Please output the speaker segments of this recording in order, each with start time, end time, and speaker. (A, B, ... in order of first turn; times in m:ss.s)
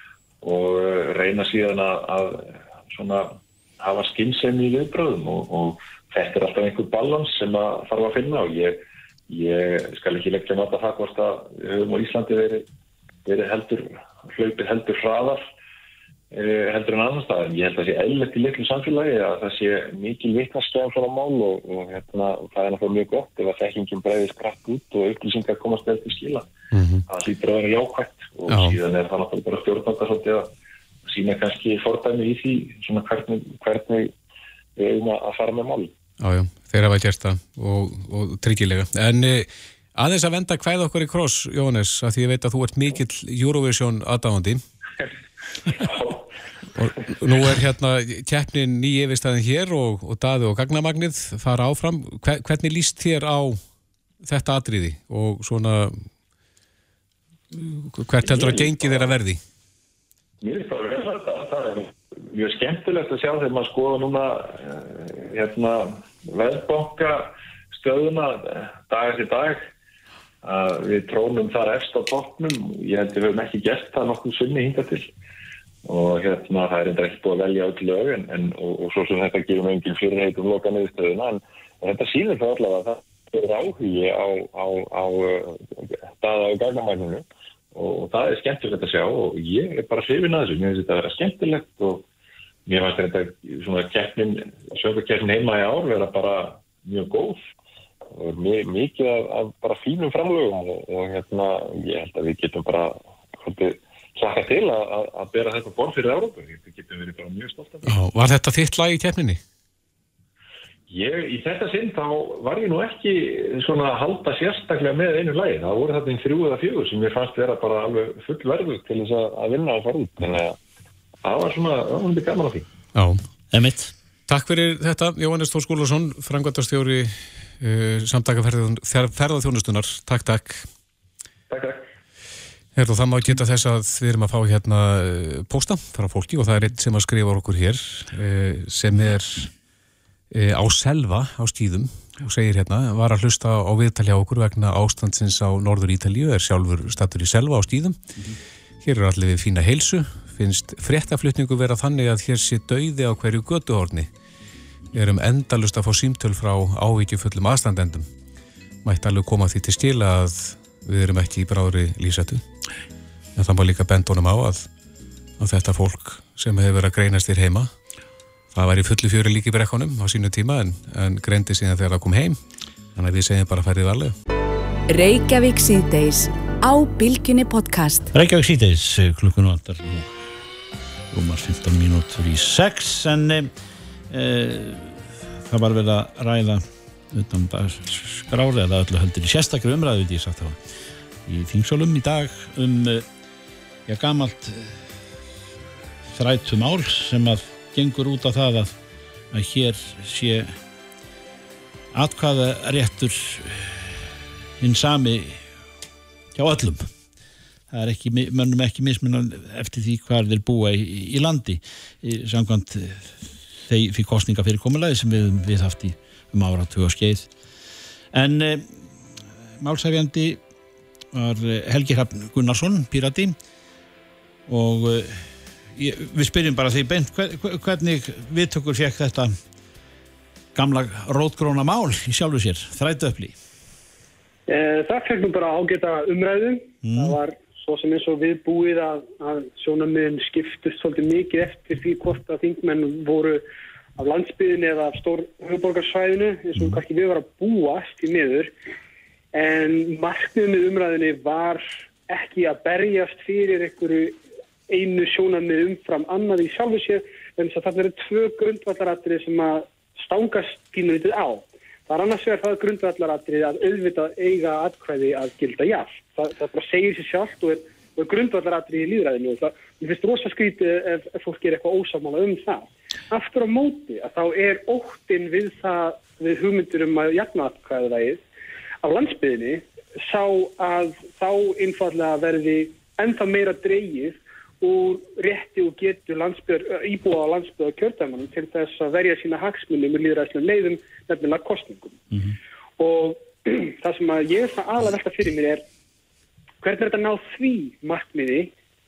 0:00.4-0:12.7 A
0:13.2-0:15.4 A
0:16.3-0:26.5 A
0:26.7-0:27.0 B
0:27.1-0:30.5 A
0:28.5-0:28.8 B
0:31.0-0:34.1 A
0:34.8-0:35.9 A
0:36.2-0:44.6 B
0:45.7-0:46.2 A
0:46.8-0:53.6 B
0:54.2-0:56.1 B
0:57.5-0:59.4 B
0:58.2-0:59.1 A
1:00.4-1:09.7 A
1:10.4-1:15.1 A
1:15.8-1:32.1 A
1:32.7-1:37.5 A
1:38.1-1:48.0 A
1:47.8-1:49.4 B
1:50.9-2:00.6 A
2:01.2-2:02.7 A
2:03.5-2:03.9 C
2:04.3-2:10.7 B
2:11.5-2:11.9 A
2:12.8-2:19.5 B
2:20.3-2:28.0 B
2:28.8-2:34.1 B
2:34.9-2:38.1 B
2:38.8-2:42.4 B
2:43.4-2:44.7 B
2:45.4-2:47.7 B
2:48.5-2:52.4 B
2:53.0-2:54.2 B
2:54.9-2:58.1 D
2:58.1-3:00.1 C
3:01.1-3:03.5 C
3:04.1-3:10.6 C
3:11.2-3:13.0 C
3:13.9-3:14.9 C
3:16.1-3:18.8 C
3:19.3-3:20.6 C
3:21.9-3:25.4 C
3:26.4-3:26.9 C
3:27.7-3:37.3 C
3:38.1-3:40.4 C
3:41.1-3:43.4 C
3:44.5-3:49.3 C
3:50.6-3:53.4 C
3:54.5-4:03.4 E
3:56.8-3:57.2 C
4:04.0-4:08.5 E
4:09.3-4:14.2 E
4:14.7-4:38.2 E
4:38.8-4:52.0 E
4:52.8-4:55.6 E
4:56.6-4:58.5 E